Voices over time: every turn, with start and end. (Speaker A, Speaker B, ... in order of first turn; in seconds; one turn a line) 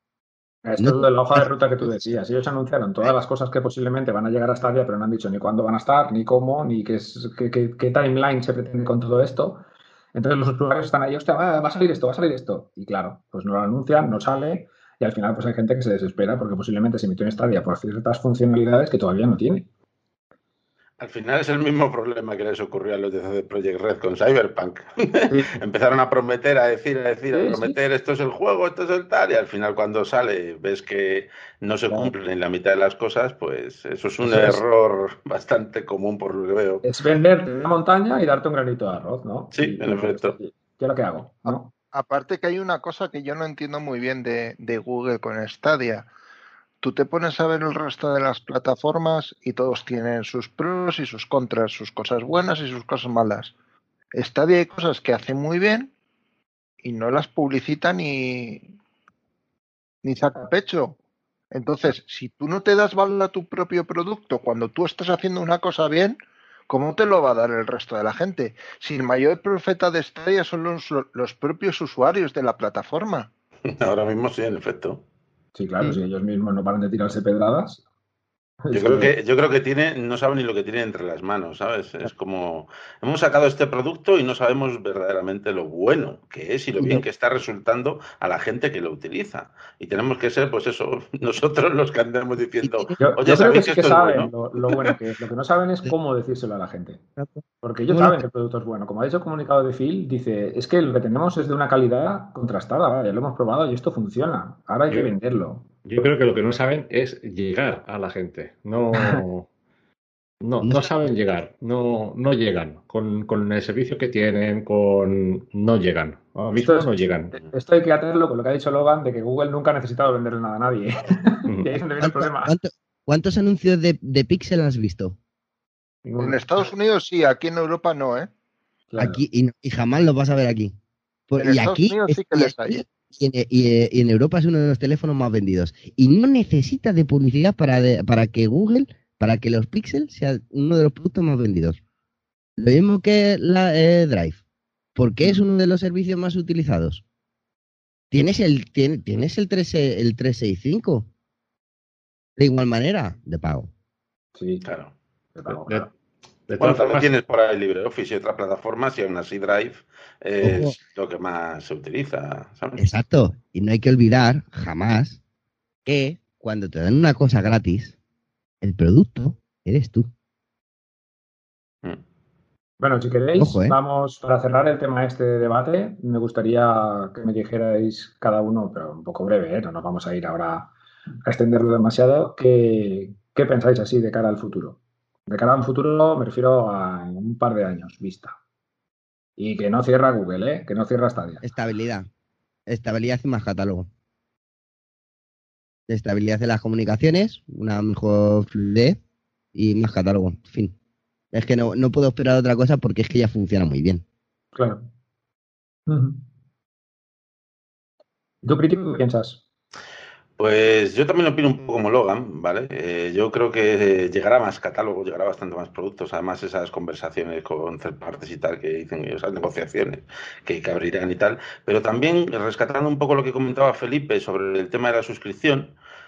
Speaker A: 0.6-19.7
Speaker B: 0.8-2.0
Speaker C: 21.0-36.8
Speaker A: 25.3-25.6
Speaker A: 27.3-27.8
Speaker A: 31.9-32.1
Speaker A: 34.2-34.6
Speaker A: 36.8-41.7
Speaker C: 39.5-40.3
Speaker D: 41.5-46.1
Speaker D: 46.8-53.5
Speaker D: 54.1-55.9
Speaker D: 56.8-58.7
Speaker D: 60.0-61.0
Speaker D: 61.5-66.2
Speaker D: 66.7-73.3
Speaker C: 73.7-75.0
Speaker A: 75.5-77.8
Speaker A: 78.6-79.2
Speaker C: 78.7-94.9
Speaker B: 86.8-87.0
Speaker B: 92.6-93.0
Speaker A: 93.0-97.0
Speaker B: 97.2-98.2
Speaker A: 97.6-105.7
Speaker E: 105.8-109.5
Speaker A: 108.9-109.2
Speaker E: 110.4-117.4
Speaker B: 110.6-110.9
Speaker A: 116.5-122.5
Speaker B: 122.0-125.2
Speaker A: 126.0-126.7
Speaker D: 126.2-128.3
Speaker A: 128.9-129.2
Speaker B: 129.0-130.8
Speaker B: 131.3-141.8
Speaker D: 131.4-132.8
Speaker B: 142.6-144.4
Speaker B: 144.9-147.0
Speaker B: 148.1-151.1
Speaker B: 152.4-153.7
Speaker A: 154.3-154.6
Speaker C: 154.6-154.9
Speaker A: 155.3-155.9
Speaker E: 155.5-155.9
Speaker E: 156.5-157.1
Speaker C: 156.5-162.8
Speaker B: 160.4-160.8
Speaker B: 162.8-165.2
Speaker B: 165.8-168.0
Speaker B: 168.6-170.1
Speaker A: 172.8-180.7
Speaker B: 173.4-173.8
Speaker A: 181.3-188.4
Speaker A: 189.4-191.4
Speaker B: 191.4-192.1
Speaker B: 192.7-193.9
Speaker B: 195.9-199.0
Speaker B: 199.5-200.8
Speaker B: 201.3-204.0
Speaker A: 204.6-204.9
Speaker A: 205.9-206.2
Speaker A: 208.4-209.4
Speaker C: 210.4-225.7